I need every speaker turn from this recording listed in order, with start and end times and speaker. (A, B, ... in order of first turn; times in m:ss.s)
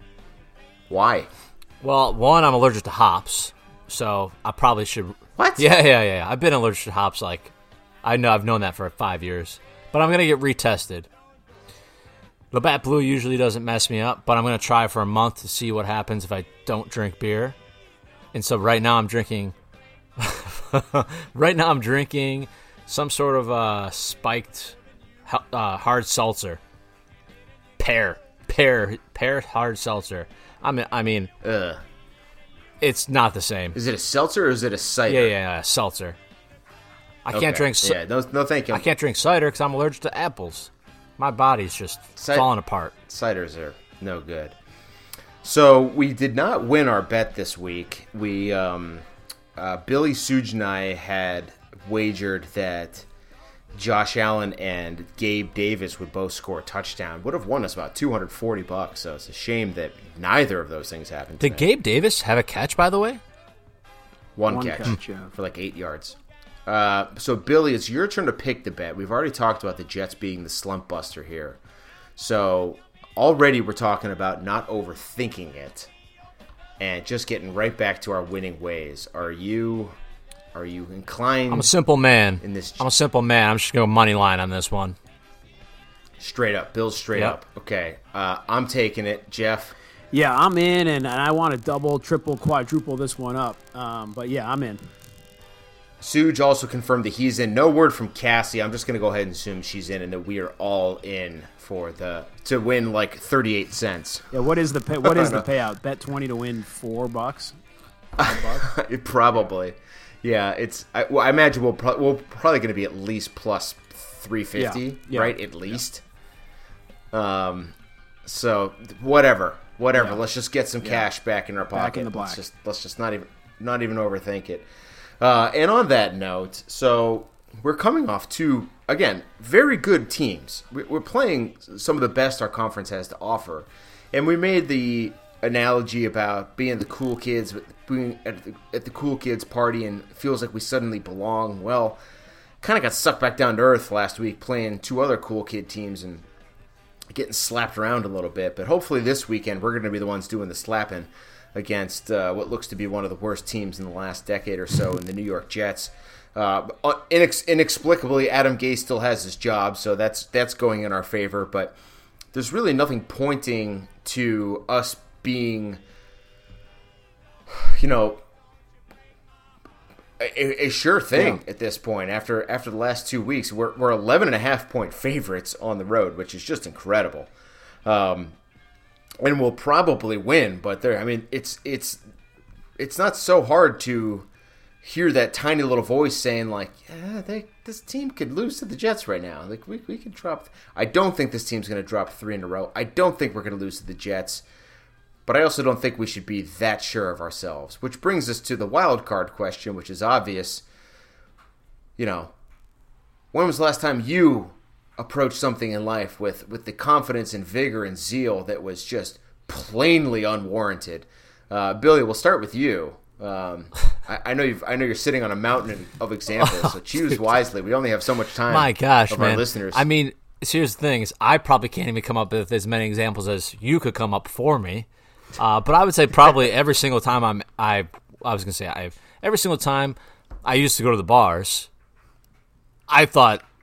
0:00.9-0:01.3 A
0:01.8-0:07.5 B
0:05.4-0:05.7 A
0:08.0-0:11.1 B
0:12.5-0:17.6 B
0:18.3-0:19.5 B
0:20.2-0:26.6 B
0:27.8-0:31.3 B
0:31.4-0:31.8 A
0:32.8-0:33.8 B
0:33.8-0:35.3 A
0:35.1-0:36.2 B
0:37.2-0:38.0 B
0:37.3-0:38.9 A
0:38.7-0:42.9 B
0:42.2-0:42.5 A
0:43.0-0:44.6 A
0:45.4-0:49.0 A
0:49.6-0:53.1 A
0:53.8-1:01.7 A
1:01.4-1:03.2 B
1:04.4-1:11.6 A
1:04.5-1:05.3 C
1:12.2-1:15.9 A
1:16.8-1:19.9 A
1:20.5-1:21.7 A
1:21.5-1:25.0 B
1:22.4-1:22.9 A
1:26.2-1:29.7 A
1:30.1-1:34.9 C
1:36.0-1:44.3 A
1:44.3-1:47.6 C
1:45.0-1:45.4 A
1:48.2-1:56.0 A
1:48.2-1:48.7 C
1:54.6-1:55.4 C
1:57.1-2:04.7 A
2:01.7-2:02.4 C
2:05.2-2:22.0 A
2:22.6-2:26.3 A
2:27.1-2:41.8 A
2:42.3-2:45.8 A
2:47.5-2:48.2 A
2:50.2-2:57.3 A
2:57.8-2:58.4 A
2:59.2-3:02.0 A
3:02.8-3:04.3 A
3:04.8-3:14.4 A
3:15.3-3:20.7 A
3:22.0-3:22.3 A
3:23.3-3:39.9 A
3:36.4-3:36.7 B
3:38.5-3:44.9 B
3:45.4-3:51.7 B
3:52.9-3:53.4 B